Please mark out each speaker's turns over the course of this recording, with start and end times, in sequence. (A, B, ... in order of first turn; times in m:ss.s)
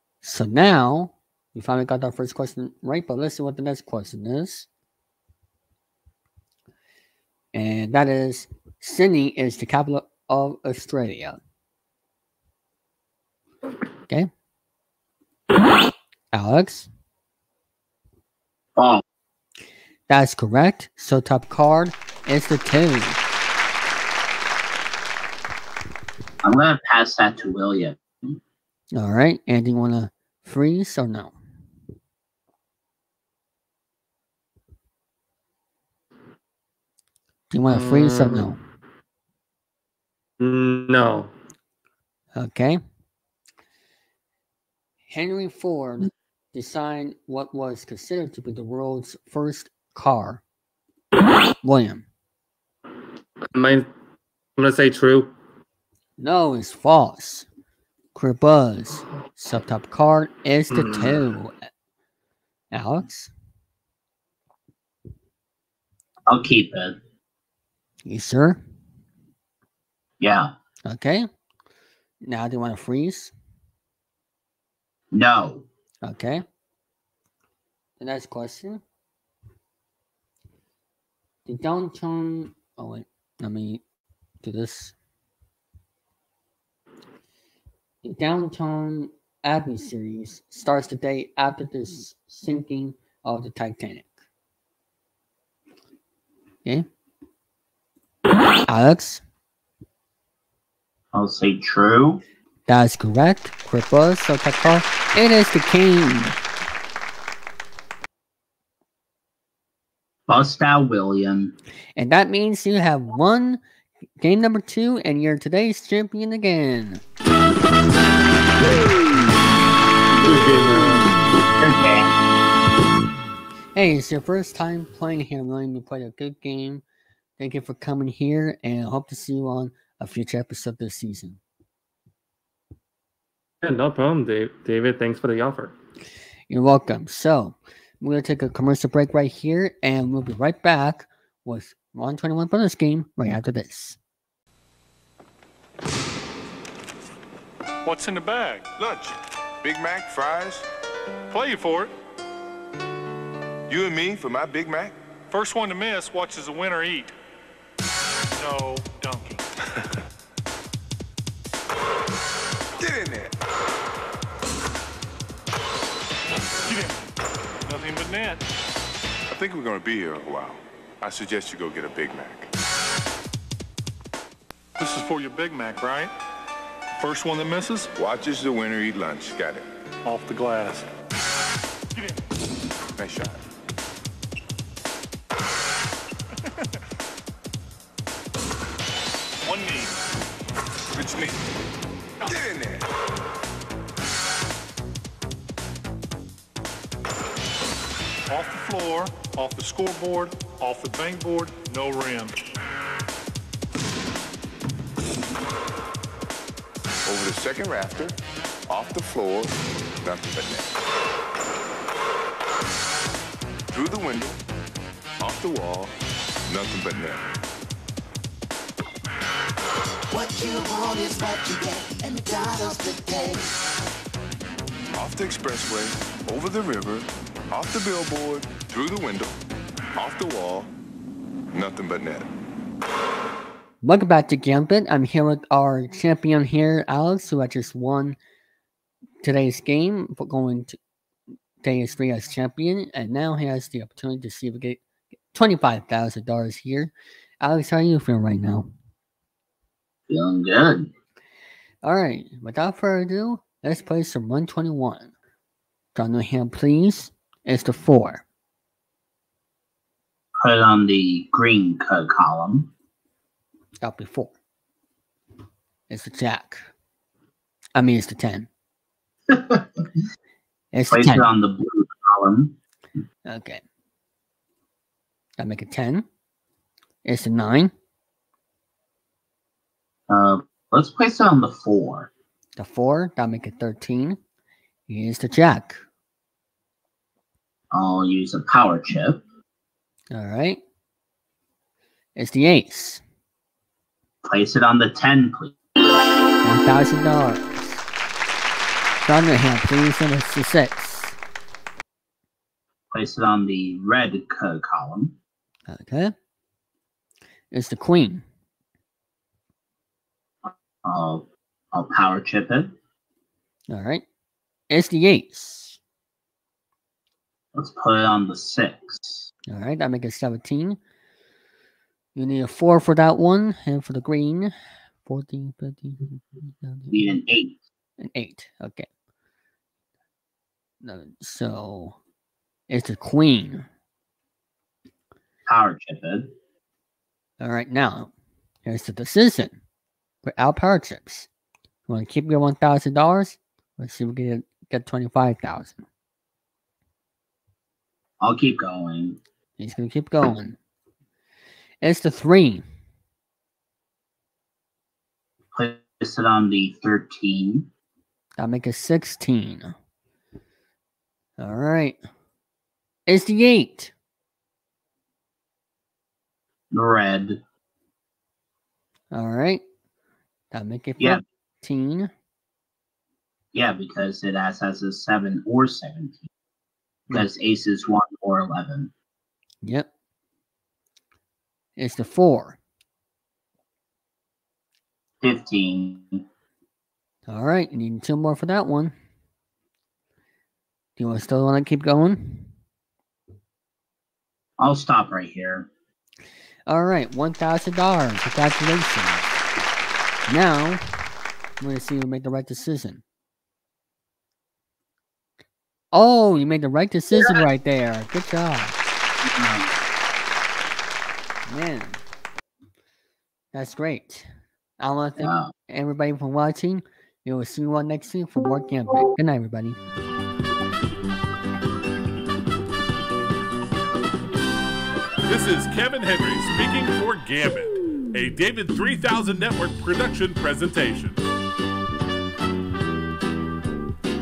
0:00.2-0:04.7 A
0:07.5-0:11.4 A
0:16.3-0:16.9 A
0:18.8-0:19.0 B
0:20.1-0:23.2 A
0:26.4-0:28.4 B
0:29.0-0:31.4 A
0:37.5-0:38.6 A
0:37.7-0:38.6 C
0:40.4-0:41.3 C
0:42.4-0:42.8 A
0:45.1-0:50.4 A
0:51.6-0:52.1 A
0:53.5-0:53.8 C
0:54.6-0:55.3 C
0:56.2-0:57.5 A
0:58.2-1:01.5 A
1:00.7-1:01.2 C
1:02.7-1:03.3 A
1:06.3-1:07.0 B
1:08.0-1:08.6 A
1:10.2-1:10.5 B
1:10.9-1:11.3 A
1:12.2-1:13.3 A
1:15.1-1:15.7 B
1:16.0-1:16.4 A
1:18.0-1:18.8 A
1:21.5-1:23.8 A
1:24.4-1:25.0 A
1:28.0-1:34.1 A
1:38.7-1:39.2 A
1:41.1-1:42.2 B
1:42.7-1:46.4 A
1:50.3-1:51.5 B
1:52.0-1:53.6 A
1:54.2-1:57.0 A
2:00.2-2:01.2 C
2:01.6-2:02.1 B
2:03.7-2:06.8 A
2:07.4-2:11.4 A
2:13.6-2:15.7 C
2:16.5-2:24.0 A
2:27.8-2:28.7 D
2:28.8-2:30.7 E
2:31.3-2:31.9 D
2:33.7-2:35.0 E
2:35.3-2:37.1 D
2:38.3-2:39.4 D
2:42.8-2:43.3 E
2:46.7-2:47.0 D
2:47.7-2:48.4 D
2:49.3-2:52.5 E
2:54.8-2:56.1 D
2:57.0-2:57.9 D
2:58.0-2:59.7 E
3:00.0-3:00.9 D
3:03.0-3:03.4 E
3:09.4-3:09.9 D
3:10.9-3:11.4 E
3:12.2-3:12.9 E
3:18.3-3:22.4 D
3:27.0-3:28.2 E
3:28.7-3:30.8 E
3:33.7-3:34.4 E
3:35.2-3:35.9 E
3:36.5-3:37.3 E
3:40.2-3:43.4 F
3:45.0-3:49.4 E
3:49.9-3:50.7 E
3:51.5-3:52.3 E
3:53.8-3:58.2 A
3:59.2-4:00.8 A
4:01.6-4:04.8 A
4:05.3-4:08.7 A
4:10.1-4:10.9 B
4:11.8-4:15.1 A
4:16.0-4:18.2 A
4:20.4-4:22.7 B
4:23.8-4:24.3 A
4:25.9-4:26.6 A
4:27.8-4:28.5 A
4:29.3-4:29.8 B
4:30.7-4:31.3 A
4:30.9-4:32.6 B
4:33.3-4:33.6 A
4:35.4-4:36.1 A
4:37.0-4:37.7 A
4:40.1-4:42.1 B
4:42.6-4:44.2 A
4:44.9-4:45.8 A
4:47.7-4:49.2 B
4:50.1-4:50.6 A
4:52.2-4:53.0 A
4:54.3-4:55.6 B
4:56.4-4:57.9 A
4:59.0-5:01.2 A
5:02.9-5:05.2 B
5:05.7-5:06.1 A
5:07.5-5:08.2 A
5:10.5-5:12.7 B
5:13.7-5:14.0 A
5:14.7-5:15.8 A
5:17.6-5:19.3 B
5:19.5-5:20.8 A
5:22.2-5:24.5 A
5:25.0-5:27.1 A
5:26.9-5:27.6 B
5:28.0-5:28.9 A
5:30.8-5:32.0 A
5:32.7-5:33.7 A
5:35.5-5:36.3 B
5:37.4-5:38.1 A
5:38.6-5:39.6 A
5:40.2-5:41.3 A
5:41.9-5:45.8 A
5:48.2-5:49.2 B
5:49.6-5:50.6 A
5:51.8-5:52.6 A
5:55.5-5:57.7 B
5:58.4-5:59.7 A
6:01.4-6:02.0 A
6:03.1-6:03.9 A
6:06.7-6:07.4 B
6:09.1-6:09.6 A
6:10.5-6:12.1 A
6:13.5-6:16.3 B
6:17.1-6:18.9 B
6:19.6-6:19.9 A
6:21.8-6:22.6 A
6:25.2-6:26.2 B
6:27.3-6:28.9 A
6:31.0-6:32.5 A
6:34.6-6:35.7 B
6:36.7-6:39.3 A
6:40.3-6:40.8 A
6:41.6-6:43.0 A
6:45.9-6:48.8 A
6:49.3-6:49.7 B
6:51.5-6:52.0 A
6:53.5-6:54.3 A
6:54.8-6:59.8 A
6:55.2-6:55.5 B
7:05.3-7:11.2 G